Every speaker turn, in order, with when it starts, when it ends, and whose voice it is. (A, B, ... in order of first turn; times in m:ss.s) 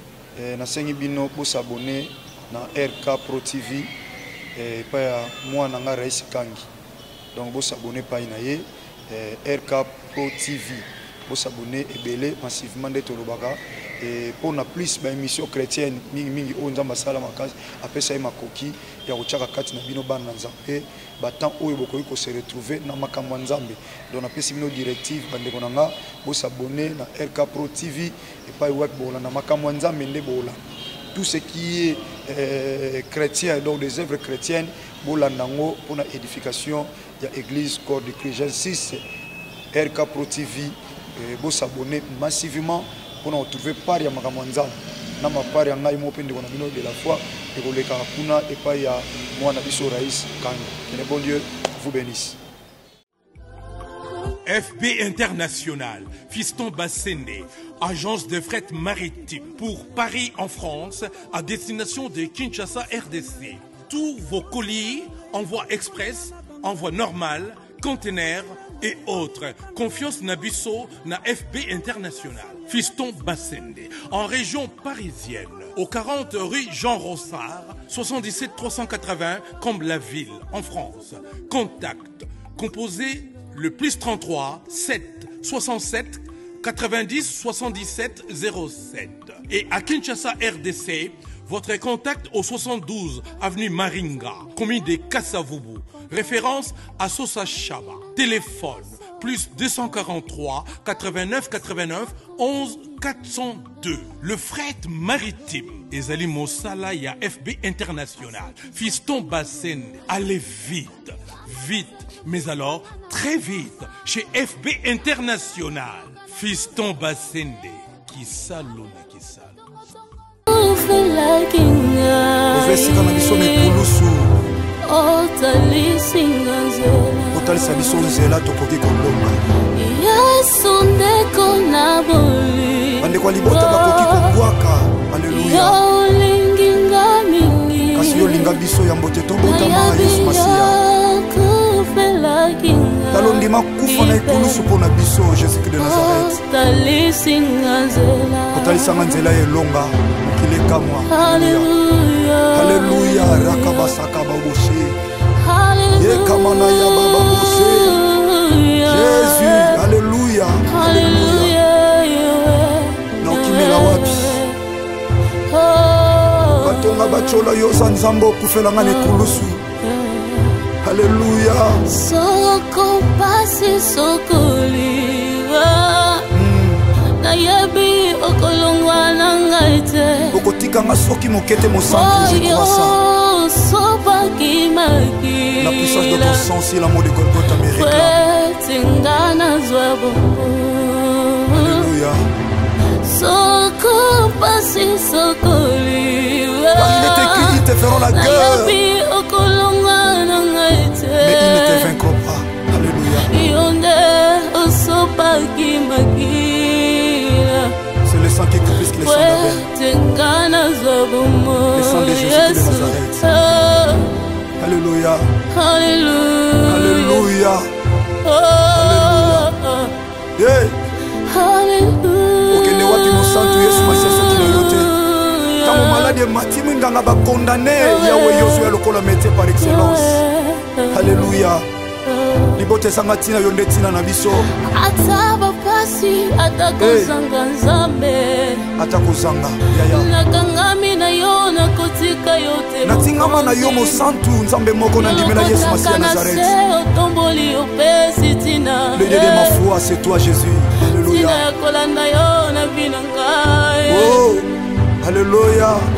0:00.4-0:03.9 A
0:04.6-0:06.7 A
0:07.3-0:30.6 A
0:31.1-0:39.0 A
0:39.7-0:52.4 A
0:54.4-1:59.6 B
2:00.5-2:03.9 C
2:02.5-2:04.3 A
2:04.8-2:08.2 C
2:07.3-2:09.4 A
2:09.8-2:14.4 C
2:13.0-2:15.8 A
2:15.3-2:18.5 C
2:18.0-2:20.8 A
2:19.4-2:24.6 C
2:23.1-2:26.4 A
2:25.8-2:29.2 C
2:28.5-2:31.7 A
2:31.1-2:34.0 C
2:32.5-2:35.0 A
2:35.4-2:39.8 C
2:36.0-2:38.0 A
2:38.8-2:41.6 A
2:40.7-2:44.6 C
2:43.2-2:44.4 A
2:45.5-2:47.4 C
2:46.6-2:49.6 A
2:48.8-2:50.6 C
2:50.8-2:51.8 A
2:51.9-2:56.3 C
2:56.3-2:56.8 A
2:57.2-3:00.4 C
3:00.3-3:03.0 A
3:01.8-3:06.5 C
3:05.6-3:08.2 A
3:07.7-3:11.9 C
3:11.5-3:12.2 A
3:13.0-3:21.9 C
3:16.8-3:18.8 A
3:21.2-3:23.3 A
3:23.2-3:27.8 C
3:28.0-3:29.7 A
3:28.8-3:34.1 C
3:31.7-3:33.3 A
3:34.6-3:35.3 A
3:35.5-3:37.4 C
3:36.7-3:37.7 A
3:38.2-3:39.9 C
3:38.7-3:39.5 A
3:40.4-3:40.8 A
3:41.2-3:46.2 C
3:42.5-3:44.9 A
3:45.6-3:50.2 A
3:47.8-3:48.7 C
3:49.6-3:51.1 C
3:50.9-3:51.7 A
3:52.1-3:52.6 C
3:52.6-3:54.5 A
3:54.5-3:58.7 C
3:56.8-3:57.1 A
3:58.8-4:00.1 A
3:59.9-4:04.0 C
4:02.8-4:06.5 A
4:05.0-4:09.6 C
4:09.0-4:11.4 A
4:10.9-4:14.2 C
4:13.9-4:14.5 A
4:15.0-4:15.8 A